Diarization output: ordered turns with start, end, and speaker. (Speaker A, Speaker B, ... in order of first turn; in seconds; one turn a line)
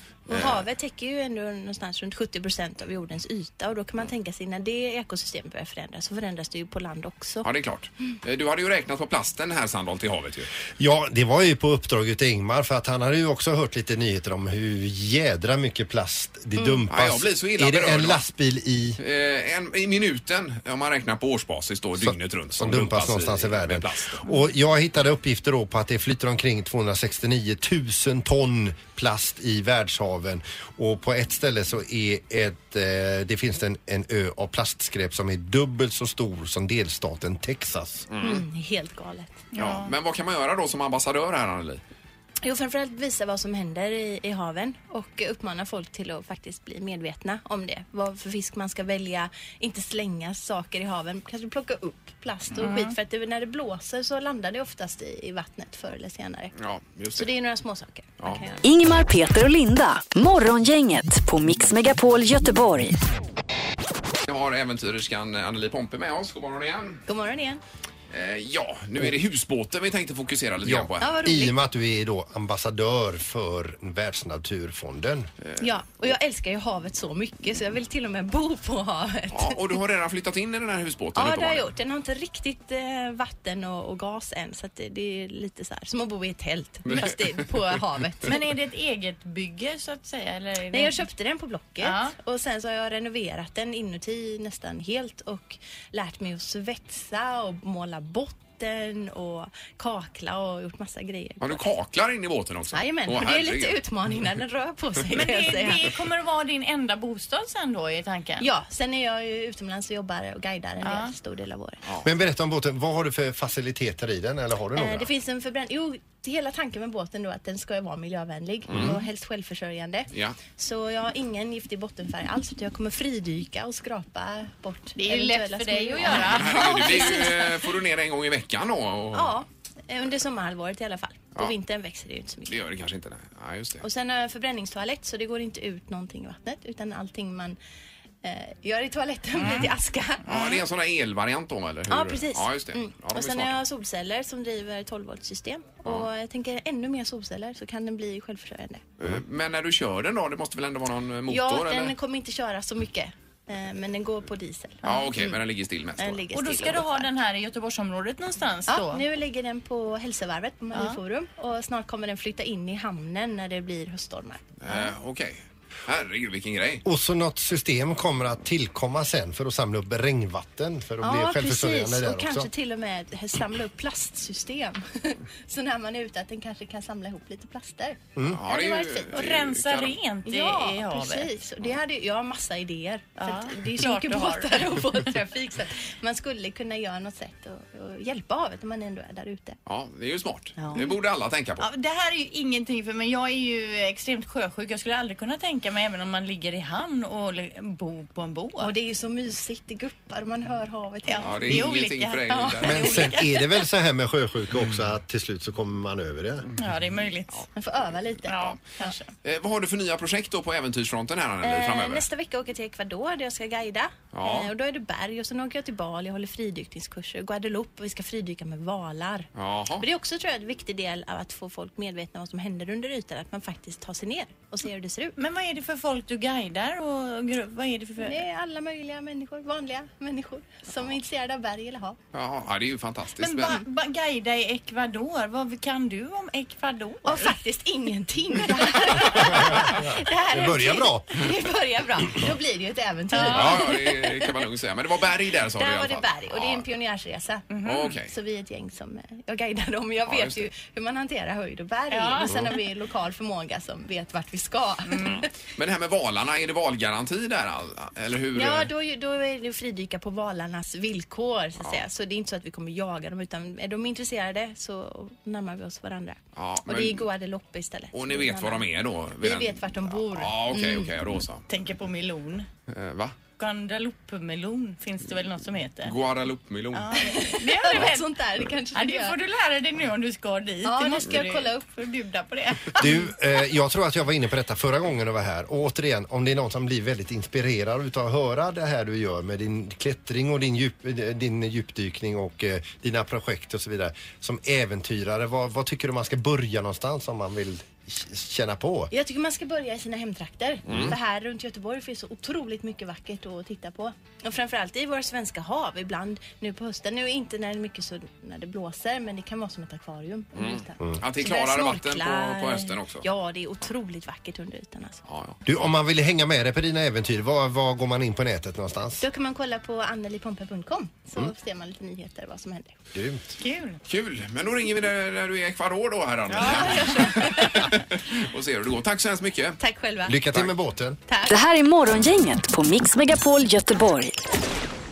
Speaker A: 0.3-7.5
Speaker B: 0.3-0.6
Speaker B: 7.4-10.5
Speaker C: 10.8-19.0
Speaker A: 16.6-16.8
Speaker B: 16.9-18.2
Speaker B: 19.0-24.2
Speaker C: 22.0-38.1
Speaker B: 38.1-38.4
Speaker A: 38.2-39.4
Speaker D: 39.5-39.9
Speaker B: 39.5-41.8
Speaker A: 42.4-56.5
Speaker B: 56.5-57.3
Speaker A: 57.1-58.6
Speaker E: 58.6-63.0
Speaker B: 64.2-67.0
Speaker A: 67.1-67.6
Speaker B: 68.1-71.2
Speaker C: 70.6-75.3
Speaker A: 71.0-71.6
Speaker A: 75.6-79.8
Speaker B: 79.3-81.7
Speaker A: 81.2-88.3
Speaker B: 86.8-87.7
Speaker D: 88.2-91.0
Speaker A: 90.7-101.7
Speaker D: 91.8-92.1
Speaker B: 101.4-103.8
Speaker A: 102.7-105.9
Speaker D: 105.1-108.5
Speaker A: 108.4-111.8
Speaker D: 110.8-111.1
Speaker C: 112.0-115.1
Speaker A: 114.8-127.5
Speaker B: 118.7-119.0
Speaker B: 120.1-120.4
Speaker D: 125.0-127.5
Speaker B: 126.0-129.3
Speaker A: 129.1-132.6
Speaker B: 132.5-133.8
Speaker A: 133.8-137.6
Speaker A: 138.2-140.6
Speaker D: 139.4-139.7
Speaker B: 140.2-143.6
Speaker A: 141.9-148.8
Speaker B: 149.0-151.9
Speaker A: 151.3-155.4
Speaker B: 154.8-156.2
Speaker A: 156.0-157.1
Speaker D: 156.3-159.0
Speaker A: 158.7-164.9
Speaker D: 160.7-161.0
Speaker B: 164.6-166.8
Speaker C: 166.8-172.5
Speaker A: 171.0-179.3
Speaker B: 178.3-180.0
Speaker D: 179.1-181.3
Speaker A: 180.2-189.6
Speaker D: 183.2-184.7
Speaker B: 189.7-191.7
Speaker D: 190.6-190.9
Speaker D: 191.6-198.7
Speaker A: 198.6-201.4
Speaker D: 201.1-203.5
Speaker B: 201.2-203.1
Speaker C: 202.6-206.4
Speaker B: 206.4-206.7
Speaker D: 206.6-207.4
Speaker A: 207.5-208.9
Speaker D: 208.3-209.1
Speaker B: 209.2-212.0
Speaker A: 211.4-225.2
Speaker B: 214.1-214.5
Speaker B: 219.3-219.8
Speaker D: 225.2-228.2
Speaker A: 228.0-232.0
Speaker B: 232.1-233.6
Speaker D: 233.2-237.3
Speaker A: 237.0-244.3
Speaker C: 239.1-241.2
Speaker D: 243.1-243.6
Speaker B: 243.2-246.6
Speaker A: 245.6-255.3
Speaker B: 247.6-248.1
Speaker B: 250.1-250.5
Speaker D: 251.9-252.4
Speaker C: 252.2-252.5
Speaker B: 255.6-258.7
Speaker A: 258.3-268.7
Speaker B: 266.3-267.1
Speaker B: 267.9-271.4
Speaker A: 269.2-270.9
Speaker D: 271.5-272.5
Speaker B: 272.7-273.1
Speaker D: 273.4-275.9
Speaker B: 275.8-277.0
Speaker D: 276.7-278.1
Speaker A: 277.0-279.2
Speaker D: 278.7-283.1
Speaker A: 280.6-281.6
Speaker C: 282.8-298.9
Speaker A: 298.9-315.0
Speaker B: 300.7-300.9
Speaker B: 310.4-313.0
Speaker B: 315.1-315.6
Speaker C: 315.4-319.0
Speaker A: 319.0-322.7
Speaker C: 322.9-323.3
Speaker D: 323.4-323.8
Speaker B: 323.9-329.6
Speaker D: 326.3-327.3
Speaker A: 326.4-327.7
Speaker A: 329.6-330.2
Speaker C: 330.1-331.0
Speaker A: 331.1-331.4
Speaker E: 331.3-334.2